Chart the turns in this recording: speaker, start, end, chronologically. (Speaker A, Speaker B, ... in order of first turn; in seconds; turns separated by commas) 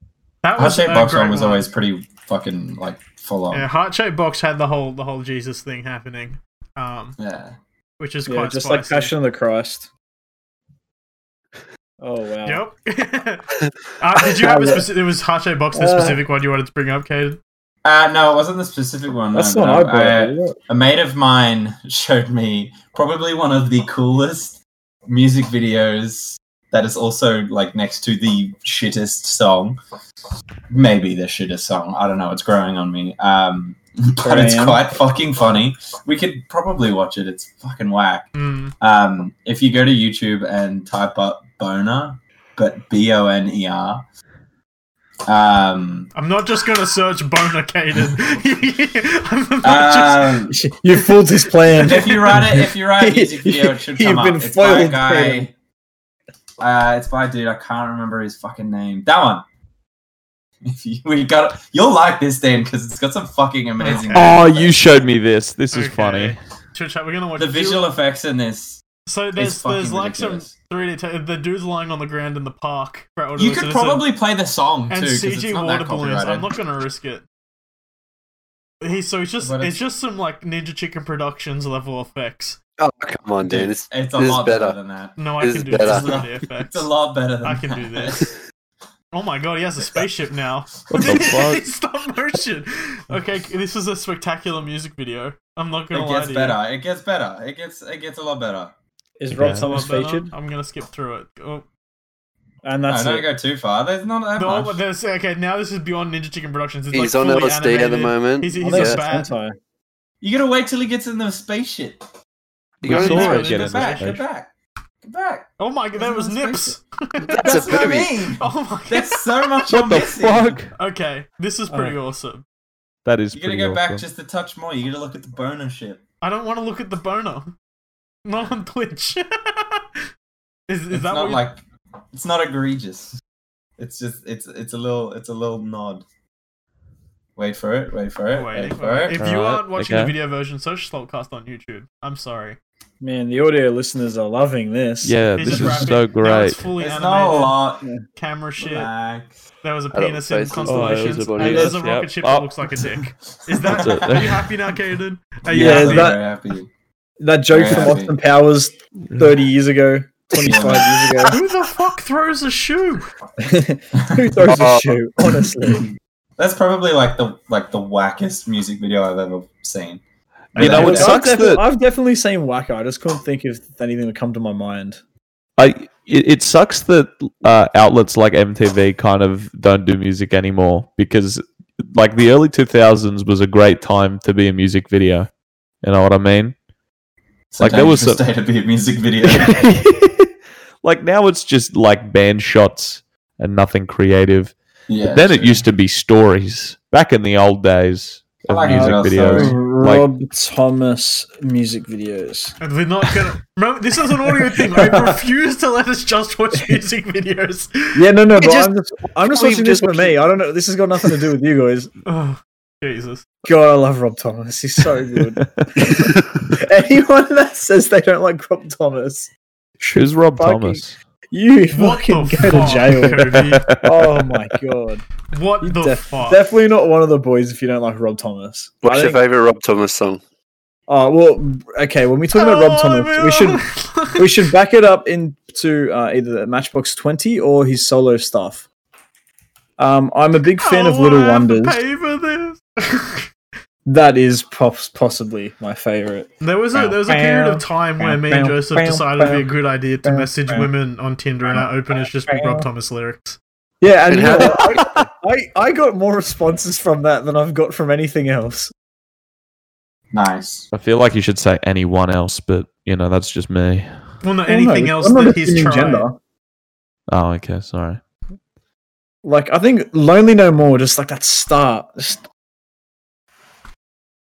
Speaker A: 0.4-1.7, Speaker B: 0.6-3.7, Speaker A: 3.5-7.2, Speaker B: 7.2-7.6, Speaker A: 8.0-9.1, Speaker C: 8.3-9.9, Speaker C: 12.0-12.7, Speaker A: 12.5-13.5, Speaker A: 14.0-17.4, Speaker C: 14.3-14.8, Speaker C: 15.8-16.2, Speaker B: 17.8-29.8, Speaker C: 19.3-20.6, Speaker B: 30.7-44.0, Speaker C: 34.2-34.9, Speaker A: 38.4-38.7, Speaker B: 45.3-46.1, Speaker A: 46.2-50.5, Speaker B: 49.6-50.6, Speaker C: 50.5-55.5, Speaker B: 51.8-55.5, Speaker A: 51.8-52.3, Speaker B: 56.6-59.4, Speaker B: 60.6-65.0, Speaker A: 63.8-64.3, Speaker D: 64.1-66.4, Speaker A: 65.7-67.9, Speaker B: 67.4-68.8, Speaker A: 69.1-74.0, Speaker B: 69.4-70.5, Speaker B: 73.4-76.5, Speaker A: 74.9-77.2, Speaker A: 78.8-82.6, Speaker B: 79.4-79.7, Speaker E: 82.8-84.8, Speaker B: 83.4-85.3, Speaker A: 85.2-86.9, Speaker E: 85.4-86.1, Speaker B: 85.8-88.3, Speaker A: 87.4-88.2, Speaker A: 89.1-96.6, Speaker D: 90.9-91.6, Speaker B: 95.9-98.7, Speaker C: 99.2-100.3, Speaker D: 99.3-99.7, Speaker A: 99.4-101.7, Speaker C: 102.6-103.3, Speaker B: 102.9-104.8, Speaker A: 104.3-109.3, Speaker E: 106.9-109.0, Speaker C: 108.6-109.6, Speaker B: 110.2-112.0, Speaker B: 112.8-114.5, Speaker A: 112.8-114.1, Speaker D: 112.8-114.2, Speaker B: 115.0-116.8, Speaker A: 115.6-119.6, Speaker E: 117.2-118.1, Speaker B: 117.3-120.6, Speaker D: 119.7-120.7, Speaker A: 120.8-122.4, Speaker C: 121.7-122.0, Speaker D: 123.0-124.0, Speaker B: 123.3-126.0, Speaker A: 126.2-127.5, Speaker A: 128.2-129.8, Speaker A: 130.7-131.4, Speaker B: 130.9-131.6, Speaker B: 132.1-133.2, Speaker B: 133.8-136.1, Speaker B: 137.4-139.2, Speaker A: 138.3-142.6, Speaker D: 139.2-140.2, Speaker C: 143.0-145.7, Speaker D: 145.0-146.6, Speaker A: 145.4-147.6, Speaker B: 146.8-147.8, Speaker A: 148.2-148.9, Speaker B: 148.6-149.3, Speaker A: 149.6-156.2, Speaker E: 149.9-151.8, Speaker D: 150.7-152.5, Speaker B: 153.6-154.3, Speaker D: 153.6-154.4, Speaker B: 155.5-156.7, Speaker C: 155.5-156.2, Speaker C: 157.2-161.4, Speaker B: 157.5-158.2, Speaker B: 160.4-161.3, Speaker A: 161.2-163.1, Speaker C: 163.4-165.9, Speaker B: 164.0-164.4, Speaker E: 164.4-165.5, Speaker B: 166.4-170.0, Speaker B: 170.6-171.3, Speaker C: 170.6-175.0, Speaker D: 170.6-171.6, Speaker D: 175.6-185.3, Speaker D: 185.8-186.6, Speaker B: 187.5-189.6, Speaker D: 187.6-188.2, Speaker D: 189.3-190.3, Speaker D: 190.8-200.1, Speaker B: 194.9-195.6, Speaker B: 198.5-199.6, Speaker C: 198.7-202.6, Speaker A: 202.6-208.0, Speaker C: 204.3-205.2, Speaker C: 207.9-211.9, Speaker E: 208.4-210.2, Speaker A: 212.1-213.3, Speaker C: 213.4-225.1, Speaker D: 219.9-221.0, Speaker A: 221.7-223.7, Speaker D: 223.2-224.4, Speaker A: 225.3-226.4, Speaker C: 225.6-229.2, Speaker E: 228.8-230.2, Speaker C: 230.9-233.7, Speaker A: 232.3-234.5, Speaker C: 234.2-238.7, Speaker C: 239.8-241.8, Speaker A: 240.6-243.3, Speaker C: 243.9-246.3, Speaker A: 246.4-253.4, Speaker C: 247.0-249.5, Speaker C: 250.0-250.7, Speaker C: 252.3-252.7, Speaker C: 253.8-258.7, Speaker E: 254.1-254.8, Speaker B: 260.1-260.7, Speaker D: 260.7-263.9, Speaker A: 264.2-266.1, Speaker C: 264.5-266.2, Speaker D: 267.1-268.0, Speaker C: 269.2-272.2